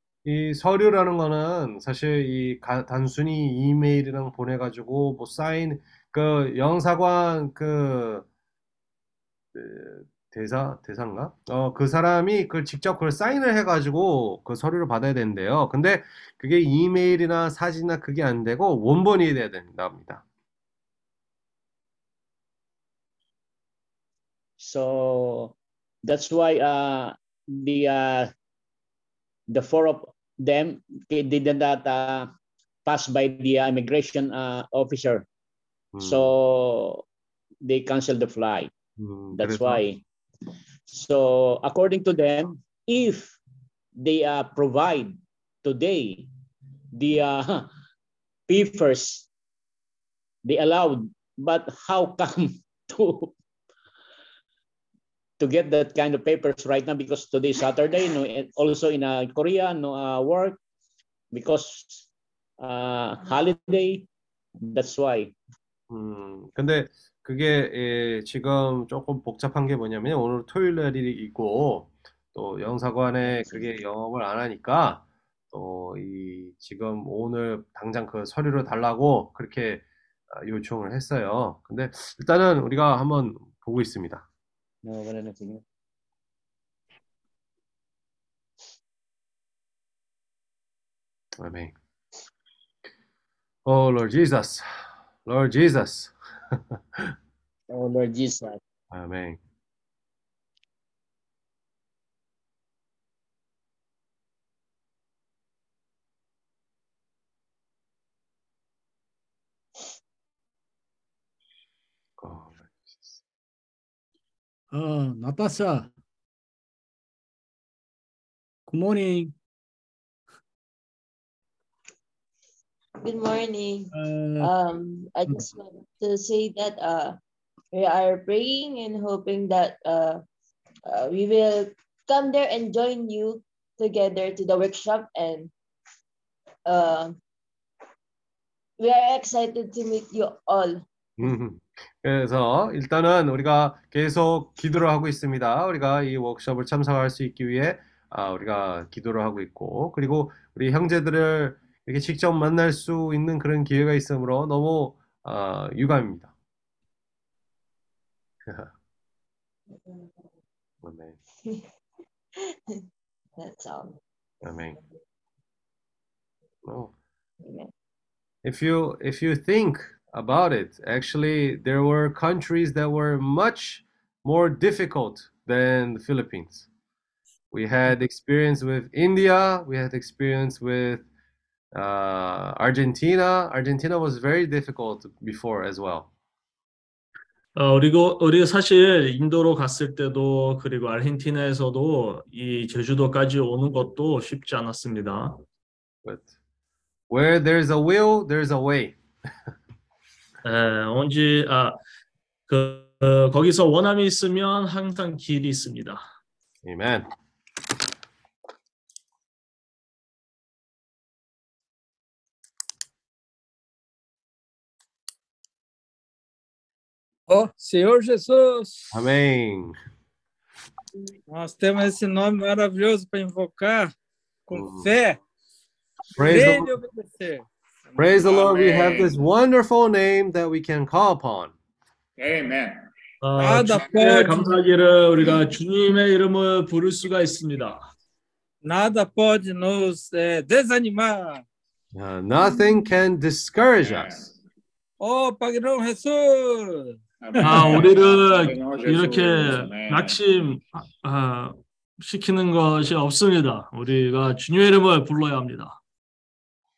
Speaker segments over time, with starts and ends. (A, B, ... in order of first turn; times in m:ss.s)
0:00.2-0:08.3 A
0:09.6-0:20.2 A
0:24.6-0:28.3 B
0:29.5-0:32.3 B
0:32.9-0:35.3 B
0:35.9-0:36.3 A
0:36.0-0:37.0 B
0:37.6-0:38.7 B
0:39.0-0:39.8 A
0:39.3-0:40.0 B
0:40.9-0:43.4 B
0:44.0-0:46.3 B
0:46.9-0:47.7 B
0:48.5-0:49.3 B
0:50.4-0:53.3 B
0:55.4-1:00.6 B
1:01.3-1:02.1 B
1:02.6-1:04.1 B
1:04.6-1:05.4 B
1:05.9-1:24.3 A
1:24.9-1:25.6 B
1:31.4-1:31.8 A
1:33.7-1:37.1 A
1:37.7-1:38.6 B
1:38.9-1:39.4 A
1:52.2-1:53.2 A
1:54.7-1:55.9 C
1:58.7-1:59.3 C
2:03.0-2:07.2 D
2:03.9-2:04.5 C
2:07.7-2:10.2 D
2:10.9-2:15.5 D
2:16.7-2:17.2 D
2:18.8-2:20.8 D
2:21.2-2:36.3 A
2:40.8-2:41.2 A
2:43.4-2:44.0 D
2:44.4-2:44.8 A
2:46.6-2:46.9 A
2:48.4-2:56.7 A
2:57.5-3:01.1 A
3:01.7-3:06.1 A
3:07.6-3:15.4 E
3:16.0-3:16.3 A
3:17.1-3:19.0 A
3:20.4-3:21.8 E
3:22.5-3:26.0 E
3:26.6-3:27.1 A
3:37.3-3:39.0 F
3:38.9-3:39.8 A
3:41.3-3:43.9 F
3:44.5-3:45.2 F
3:44.5-3:44.9 A
3:46.2-3:46.7 A
3:46.2-3:47.5 F
3:48.0-3:51.5 A
3:48.2-3:49.1 G
3:52.2-3:52.9 G
3:53.2-3:57.8 E
3:53.4-3:54.6 F
3:58.6-4:01.4 F
4:01.9-4:04.3 A
4:03.8-4:04.3 G
4:05.0-4:07.8 F
4:07.2-4:10.2 G
4:07.4-4:15.8 E